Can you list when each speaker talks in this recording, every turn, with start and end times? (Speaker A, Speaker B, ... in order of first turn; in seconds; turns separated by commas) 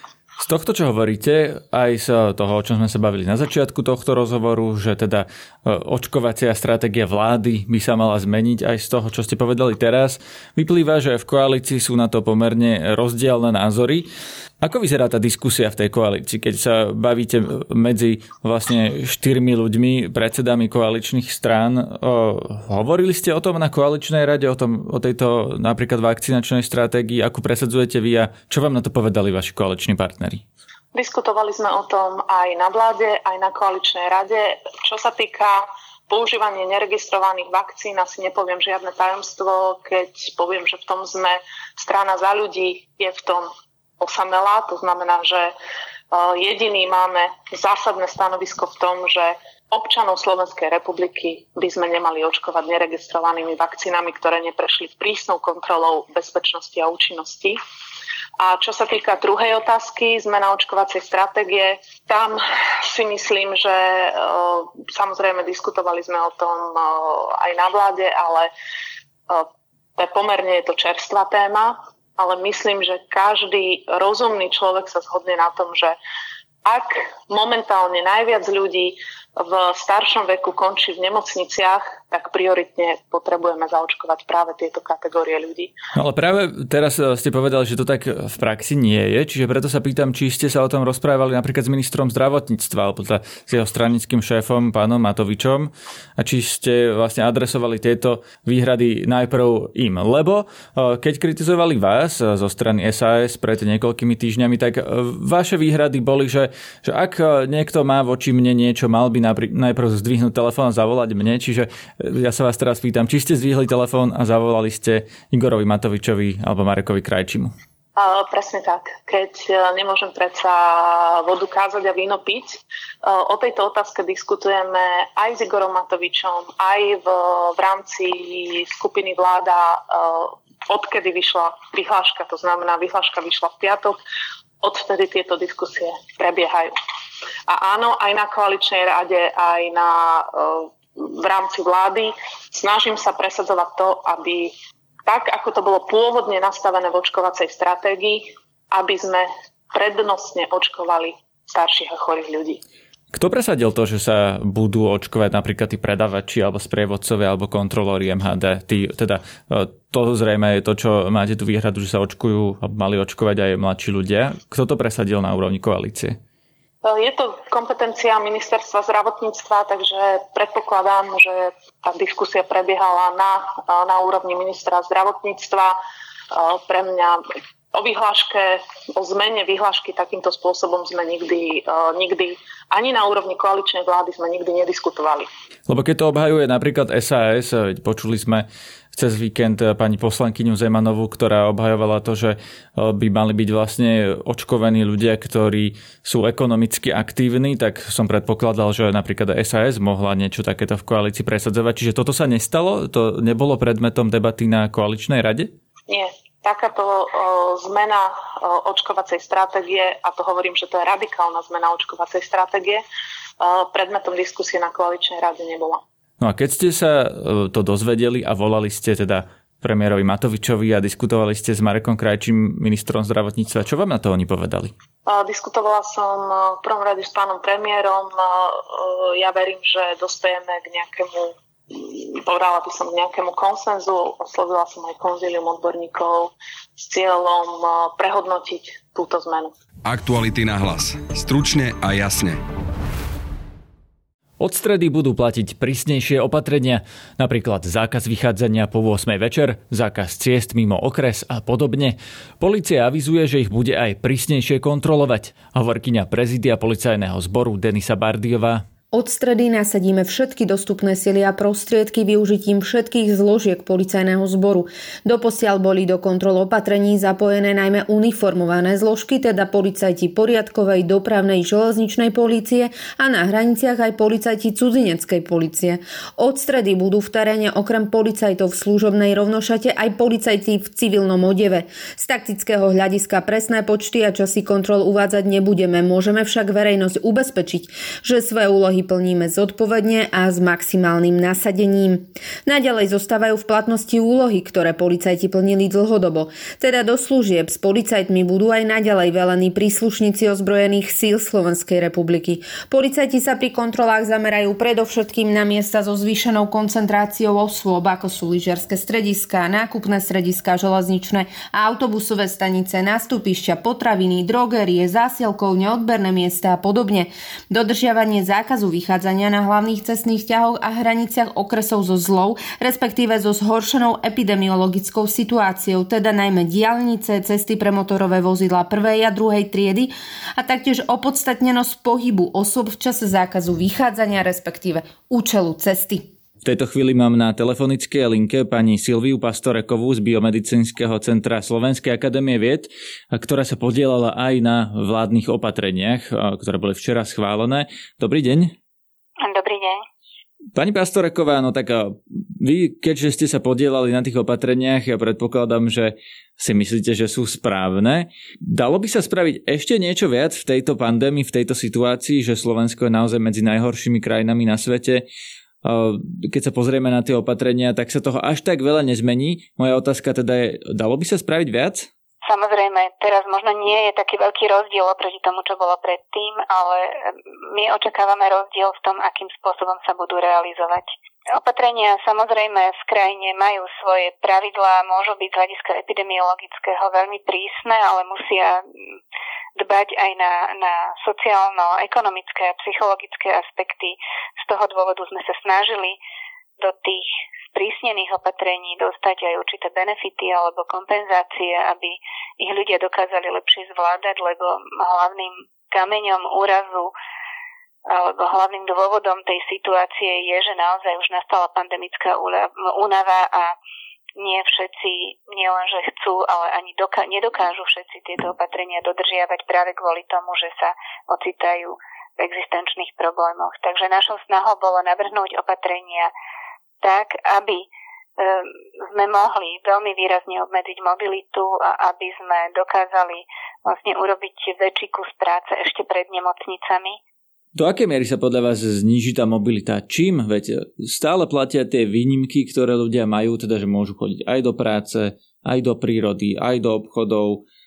Speaker A: 0.4-14.1, Speaker A: 14.6-30.4, Speaker B: 30.9-45.5, Speaker B: 46.1-57.6, Speaker B: 58.4-68.5, Speaker B: 69.3-76.0, Speaker B: 76.7-85.7, Speaker A: 86.0-117.5, Speaker B: 118.0-134.0, Speaker B: 134.6-136.7, Speaker B: 137.5-144.5, Speaker B: 145.1-152.6, Speaker A: 153.1-166.2, Speaker B: 166.8-175.8, Speaker B: 176.3-177.2, Speaker B: 177.7-185.3, Speaker A: 185.7-205.5, Speaker B: 205.9-212.8, Speaker B: 213.4-215.8, Speaker A: 216.2-224.7, Speaker B: 225.1-239.5, Speaker C: 239.9-242.3, Speaker A: 244.4-258.6, Speaker D: 258.9-336.1, Speaker A: 336.4-348.6, Speaker E: 349.2-349.8, Speaker A: 350.5-365.1, Speaker A: 365.6-371.9, Speaker E: 372.2-388.6, Speaker E: 389.6-396.0, Speaker E: 396.6-406.9, Speaker E: 407.9-413.6, Speaker E: 414.2-426.1, Speaker E: 426.8-427.7, Speaker E: 428.2-437.0, Speaker A: 437.6-447.4